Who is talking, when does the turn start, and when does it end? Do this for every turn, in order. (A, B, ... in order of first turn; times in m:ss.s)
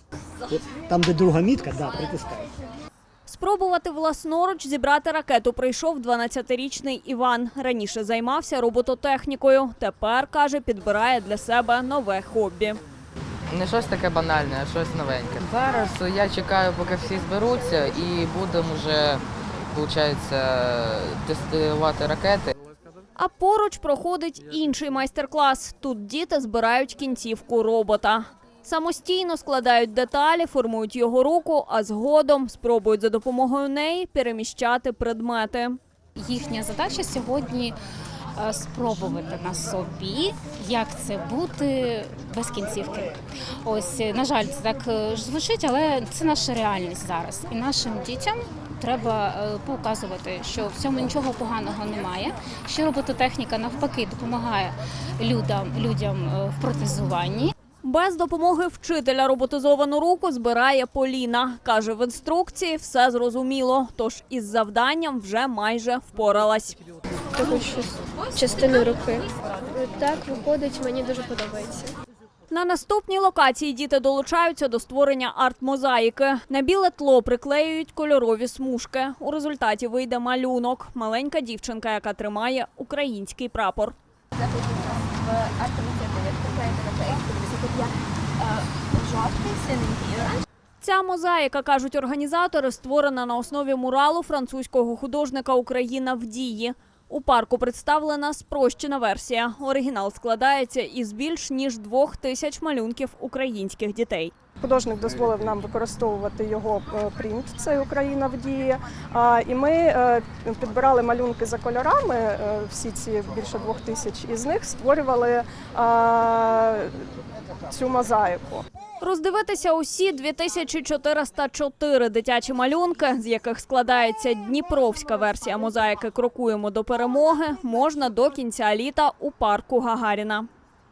0:00.5-0:02.5 A
0:03.3-0:12.8 B
0:13.5-0:22.5 C
0:23.2-0:35.8 B
0:36.2-0:37.8 D
0:38.4-0:57.6 D
0:57.8-1:06.8 B
1:07.3-1:11.9 E
1:12.5-1:24.0 B
1:24.4-1:30.4 E
1:30.8-1:44.3 B
1:44.6-1:57.0 F
1:57.7-1:58.6 F
1:59.0-2:10.5 B